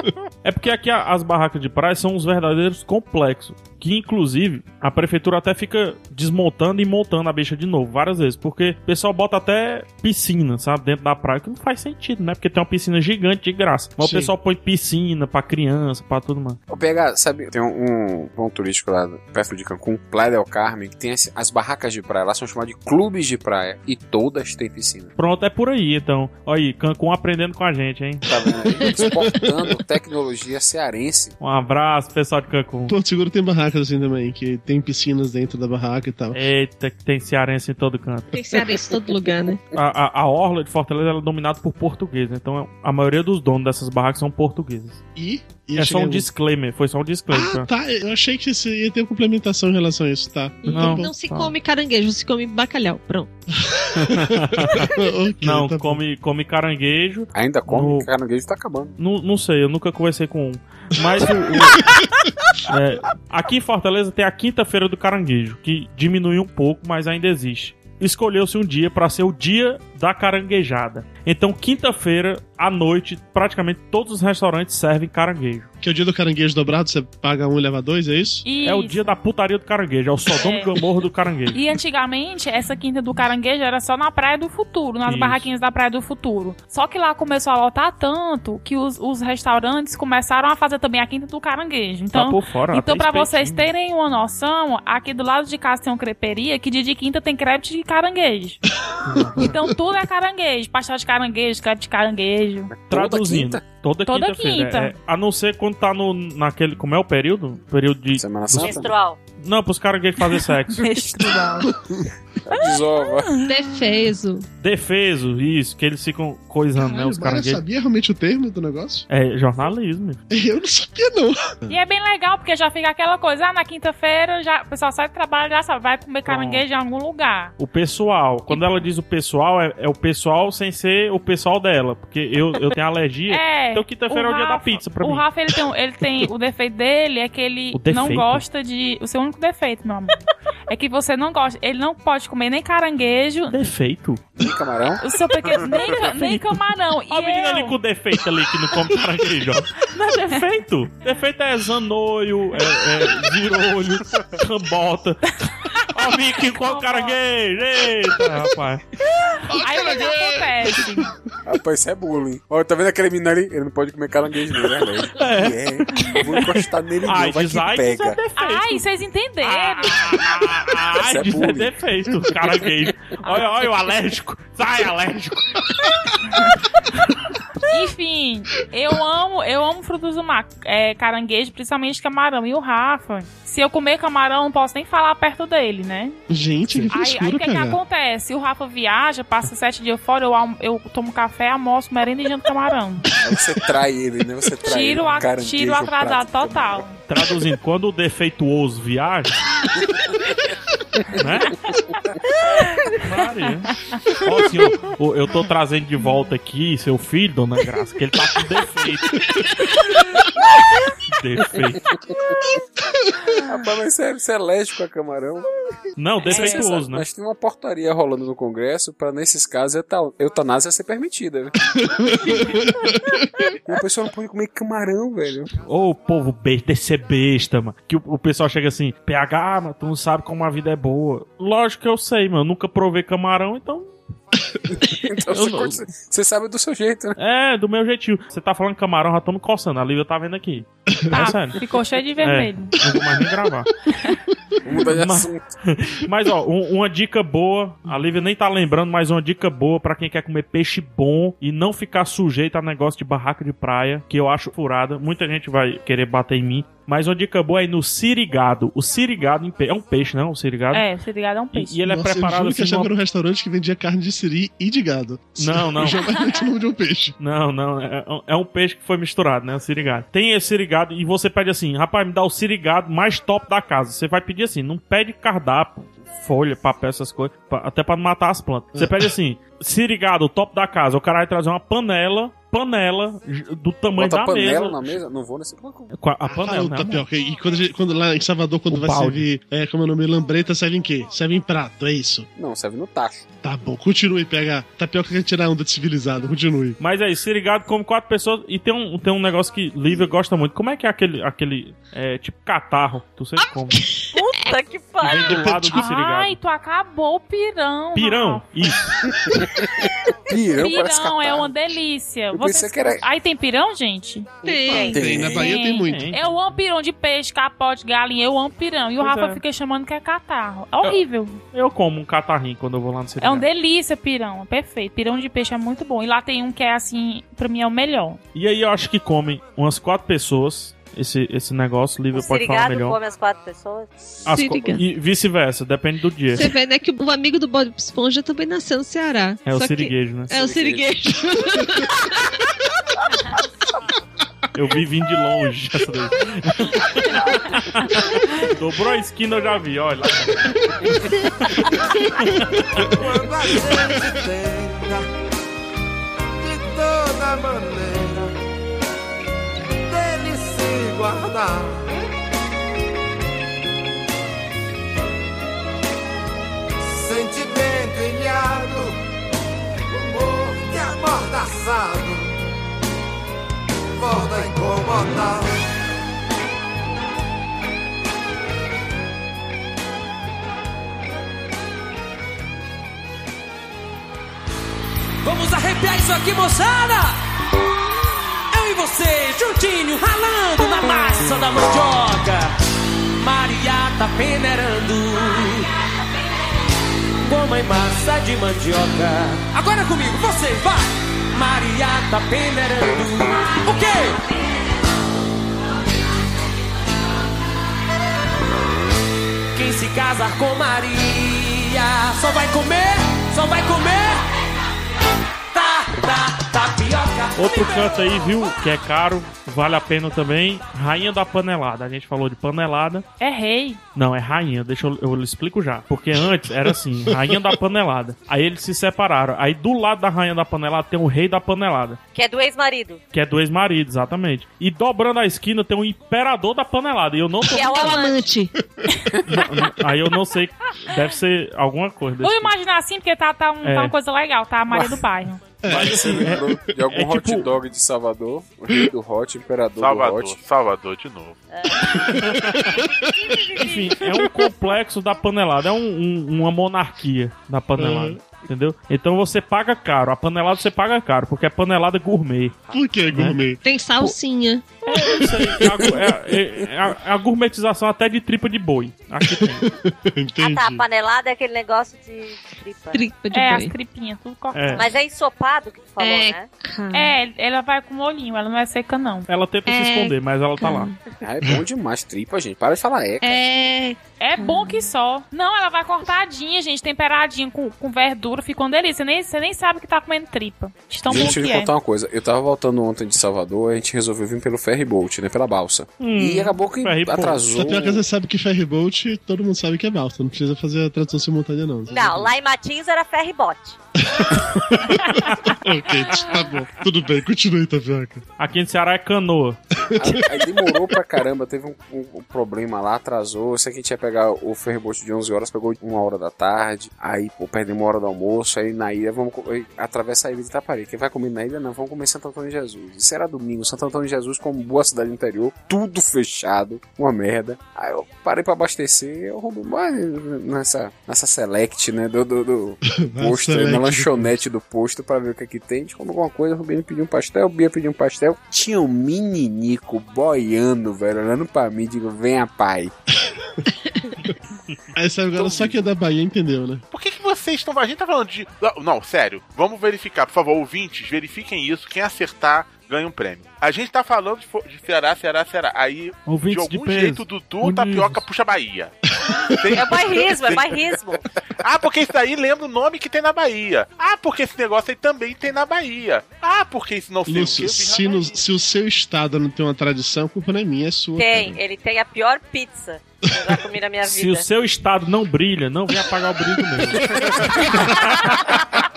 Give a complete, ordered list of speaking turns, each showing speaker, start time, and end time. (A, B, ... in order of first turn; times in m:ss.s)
0:00.4-0:16.6 A
0:14.0-0:14.3 B
0:16.7-0:25.1 C
0:25.2-0:28.3 A
0:28.2-0:31.3 C
0:28.8-0:29.2 B
0:31.4-0:32.9 A
0:32.9-0:36.4 B
0:36.3-0:38.3 A
0:38.3-0:39.6 D
0:39.7-0:45.0 A
0:45.2-0:46.3 B
0:45.8-0:47.7 A
0:47.3-0:51.1 B
0:50.6-0:53.3 D
0:50.7-0:51.5 A
0:53.6-0:56.0 B
0:54.0-0:58.1 A
0:57.3-0:58.9 C
0:59.0-1:01.9 A
1:02.7-1:15.7 A
1:15.8-1:18.4 B
1:18.4-1:19.2 E
1:18.6-1:21.6 A
1:20.3-1:20.7 E
1:21.5-1:38.6 E
1:25.0-1:25.5 A
1:32.1-1:33.7 A
1:39.0-1:39.6 A
1:39.4-1:42.7 E
1:42.7-1:43.6 C
1:42.9-1:48.9 A
1:44.1-1:44.9 E
1:48.2-1:48.9 C
1:48.6-1:49.2 F
1:49.4-1:51.0 A
1:50.4-1:51.7 E
1:51.7-1:52.1 B
1:52.5-1:53.4 C
1:52.5-1:54.0 E
1:53.4-1:54.5 D
1:54.6-1:57.6 A
1:56.8-1:59.1 B
1:59.1-2:00.2 A
2:00.3-2:01.8 B
2:01.7-2:07.5 E
2:06.2-2:06.6 A
2:07.6-2:15.3 A
2:08.5-2:08.8 E
2:13.3-2:20.2 E
2:17.7-2:18.4 A
2:20.7-2:23.6 E
2:23.5-2:24.2 A
2:24.4-2:25.0 C
2:25.0-2:27.8 E
2:26.0-2:35.2 A
2:35.5-2:37.2 E
2:35.9-2:38.9 A
2:39.2-2:41.2 E
2:39.5-2:40.7 B
2:41.4-2:48.2 C
2:45.2-2:48.9 A
2:48.3-2:50.2 E
2:49.4-2:55.7 A
2:51.0-2:51.7 C
2:53.2-2:53.5 E
2:57.7-3:06.2 E
3:06.3-3:07.8 B
3:06.9-3:13.1 E
3:13.2-3:16.9 C
3:14.6-3:17.0 E
3:17.1-3:19.4 A
3:21.1-3:21.6 A
3:22.6-3:22.9 E
3:22.9-3:29.7 A
3:31.1-3:31.8 A
3:31.9-3:32.4 C
3:33.4-3:35.5 C
3:36.0-3:37.1 A
3:36.2-3:41.6 C
3:36.3-3:36.7 E
3:41.7-3:43.5 B
3:43.6-3:45.5 C
3:45.6-3:53.9 A
3:54.7-3:57.2 C
3:55.2-3:55.8 A
3:57.2-4:01.6 A
4:00.9-4:01.2 B
4:01.1-4:02.8 E
4:02.2-4:03.7 A
4:04.6-4:05.4 C
4:04.8-4:20.9 A
4:20.7-4:21.8 E
4:21.5-4:22.9 A
4:21.9-4:27.2 B
4:25.4-4:26.1 A
4:27.2-4:45.0 A
4:38.7-4:39.1 B
4:44.0-4:45.9 C
4:45.9-4:47.1 A
4:46.2-4:52.3 B
4:48.7-4:49.2 A
4:52.4-4:53.3 C
4:53.4-4:56.8 B
4:56.8-5:03.8 A
5:03.4-5:04.6 D
5:04.1-5:05.7 F
5:05.0-5:06.4 A
5:05.7-5:08.4 E
5:08.0-5:08.9 A
5:09.3-5:11.6 C
5:10.5-5:21.4 E
5:12.3-5:13.0 C
5:14.4-5:15.1 D
5:14.7-5:14.9 F
5:14.9-5:15.5 C
5:14.9-5:16.1 B
5:15.7-5:16.4 A
5:19.0-5:19.4 A
5:21.5-5:23.5 A
5:23.2-5:28.2 E
5:28.4-5:33.0 A
5:32.1-5:34.3 F
5:34.3-5:36.5 A
5:34.3-5:34.8 D
5:36.3-5:42.3 D
5:39.5-5:40.3 A
5:40.3-5:41.0 C
5:44.5-5:52.9 A
5:52.6-5:54.0 B
5:52.9-5:55.0 G
5:56.4-5:58.3 G
5:59.8-6:01.9 G
6:06.8-6:09.0 G
6:09.9-6:12.3 G
6:14.0-6:15.5 G
6:25.2-6:27.2 H
6:28.5-6:32.5 H
6:33.2-6:35.7 H
6:37.2-6:44.2 H
6:49.6-6:54.2 H
6:55.6-6:58.3 H
6:57.4-7:03.1 A
7:03.2-7:03.8 E
7:04.0-7:12.0 A
7:12.1-7:13.0 F
7:13.1-7:18.0 A
7:17.5-7:18.3 F
7:17.5-7:18.5 D
7:19.2-7:22.6 A
7:22.2-7:25.5 E
7:23.6-7:24.0 A
7:25.6-7:26.4 B
7:25.6-7:27.5 A
7:25.7-7:30.4 C
7:29.8-7:31.4 I
7:31.5-7:34.1 F
7:32.2-7:32.7 A
7:33.6-7:43.4 A
7:37.8-7:38.2 B
7:42.7-7:43.6 B
7:43.6-7:44.7 D
7:44.8-7:49.7 A
7:49.2-7:50.8 B
7:50.4-7:53.1 F
7:52.9-7:53.8 D
7:53.3-7:55.0 E
7:54.5-7:54.8 A
7:54.8-7:56.5 F
7:56.0-7:57.2 D
7:56.9-7:59.3 E
7:59.3-8:00.9 A
7:59.7-8:01.0 D
8:01.2-8:03.4 C
8:03.2-8:04.9 D
8:04.2-8:11.7 E
8:11.1-8:18.0 C
8:16.0-8:17.5 A
8:17.5-8:22.3 B
8:21.9-8:23.8 F
8:24.1-8:28.2 B
8:28.4-8:29.6 A
8:29.9-8:30.4 B
8:30.0-9:02.9 C
8:52.9-8:54.4 B
9:05.0-9:06.8 B
9:06.9-9:19.0 I
9:16.3-9:18.2 A
9:19.2-9:19.6 B
9:19.5-9:20.9 I
9:19.7-9:21.2 F
9:21.6-9:28.4 I
9:27.3-9:31.6 B
9:31.2-9:34.5 F
9:34.0-9:38.6 A